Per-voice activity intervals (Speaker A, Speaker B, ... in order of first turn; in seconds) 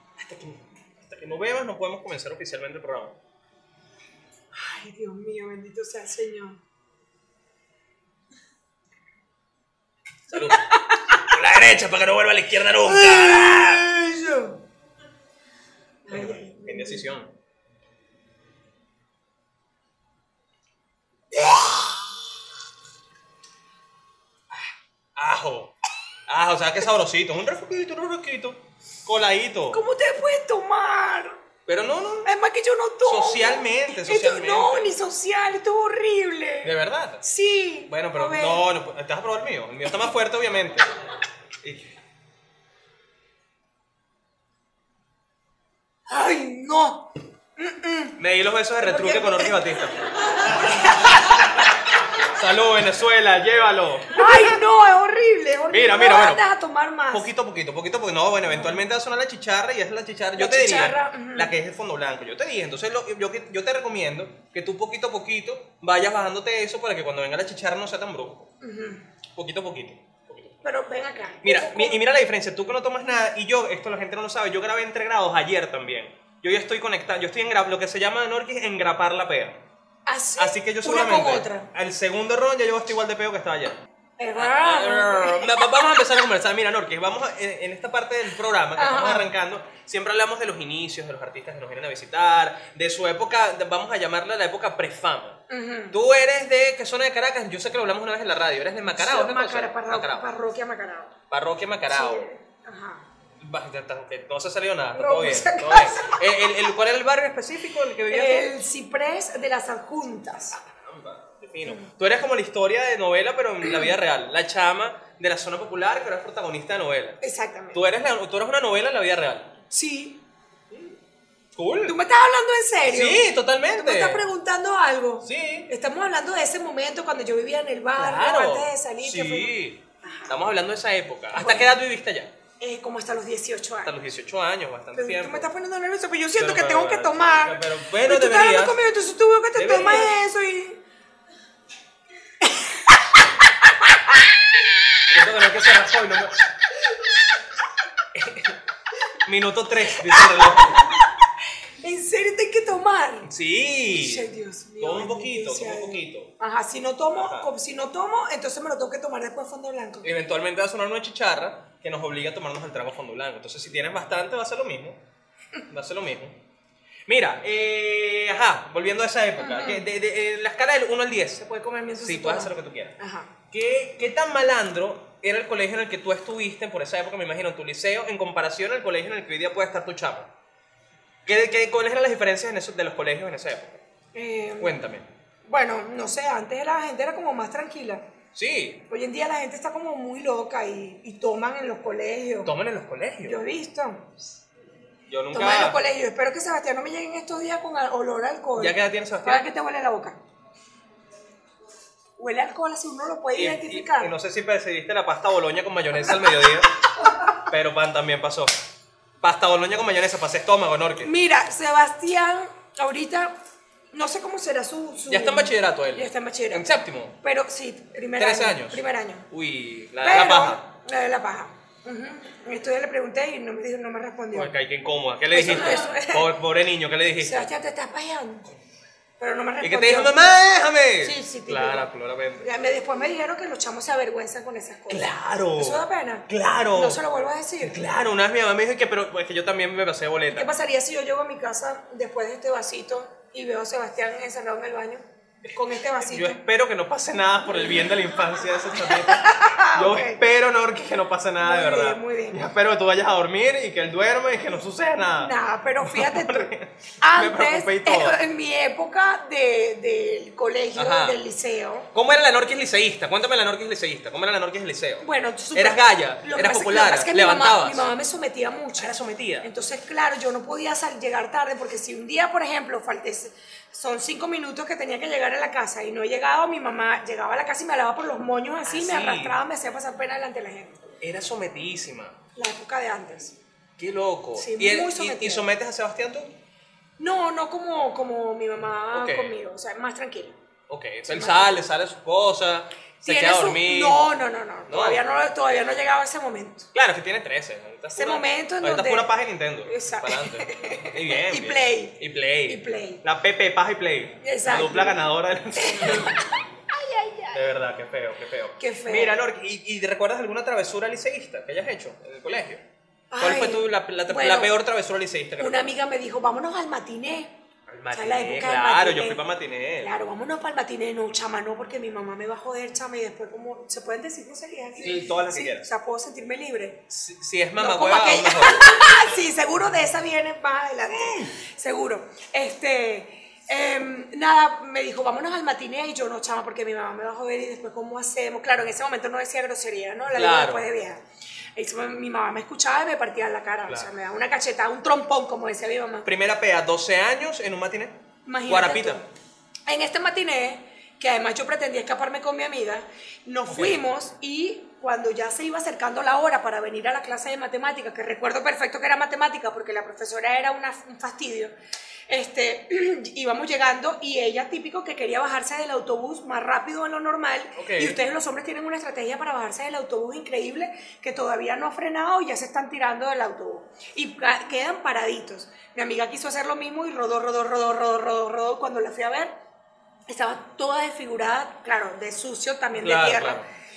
Speaker A: 0.2-3.2, 10.3-13.8, 16.1-17.3, 25.1-25.7, 26.3-29.8, 31.7-32.3, 33.0-34.9, 36.6-37.2, 37.9-40.9, 41.6-41.9, 48.2-54.6, 55.7-56.4, 57.1-68.5, 69.3-70.5, 71.4-79.6, 80.4-83.8, 84.4-100.3, 101.3-102.2, 103.4-108.5, 110.7-117.2, 117.7-119.5, 121.5-122.0, 122.8-124.3, 125.2-125.7, 128.0-132.3, 133.8-135.5, 136.4-138.8, 139.6-140.2, 145.1-146.4, 148.1-148.6, 149.2-150.9, 153.2-156.3, 157.1-157.5, 160.0-165.0, 165.7-166.4, 167.1-172.9, 173.5-180.3, 181.3-183.8, 184.6-185.1, 188.3-188.8, 192.4-193.4, 195.1-195.8, 198.6-199.4, 203.3-206.8, 207.4-208.6, 209.2-211.1, 215.1-217.2, 218.2-220.6, 224.3-227.5, 229.6-232.6, 234.9-237.0, 237.6-240.5, 246.0-258.2, 260.7-261.2, 261.9-267.9, 268.8-269.5, 278.7-279.4, 281.0-282.2, 283.8-286.3, 288.9-289.4, 290.7-294.0, 294.7-295.0, 296.7-306.2, 307.3-312.6, 313.2-315.7, 317.7-319.9, 324.8-325.7, 326.9-329.0, 340.1-340.7, 346.1-349.0, 353.5-353.8, 367.6-368.0, 382.8-383.5
Speaker B: 4.5-6.6, 10.3-11.2, 12.8-14.6, 16.1-17.1, 21.3-22.1, 29.7-31.4, 32.2-38.6, 46.1-48.2, 48.8-49.6, 50.4-51.5, 54.1-57.3, 58.5-58.8, 60.4-61.5, 68.6-69.0, 70.6-72.0, 80.1-81.7, 84.2-85.6, 88.8-89.3, 95.5-96.0, 98.9-101.1, 101.9-103.0, 104.9-106.2, 108.1-110.6, 117.2-117.8, 119.7-120.2, 121.8-130.4, 131.3-131.8, 132.6-133.9, 134.9-140.8, 142.4-143.0, 143.6-144.2, 150.0-151.1, 151.8-153.3, 153.9-160.1, 169.4-169.8, 171.7-173.3, 184.2-184.8, 185.5-188.0, 188.9-192.5, 193.2-194.1, 195.3-200.2, 202.2-204.1, 207.0-207.4, 211.0-213.3, 213.9-216.7, 217.2-219.3, 220.0-224.5, 225.3-226.3, 227.2-228.5, 229.2-230.4, 231.0-237.8, 240.3-246.4, 248.9-250.2, 251.4-252.4, 255.2-261.9, 265.0-280.9, 282.4-283.4, 284.4-285.5, 287.0-290.4, 291.1-291.6, 293.0-296.7, 297.9-299.1, 299.7-303.0, 304.2-305.0, 305.6-307.4, 308.6-309.1, 313.1-314.5, 315.4-317.3, 317.9-319.2, 319.8-326.8, 327.6-341.0, 341.6-346.1, 348.3-349.1, 349.7-361.5, 362.1-379.3, 380.1-383.4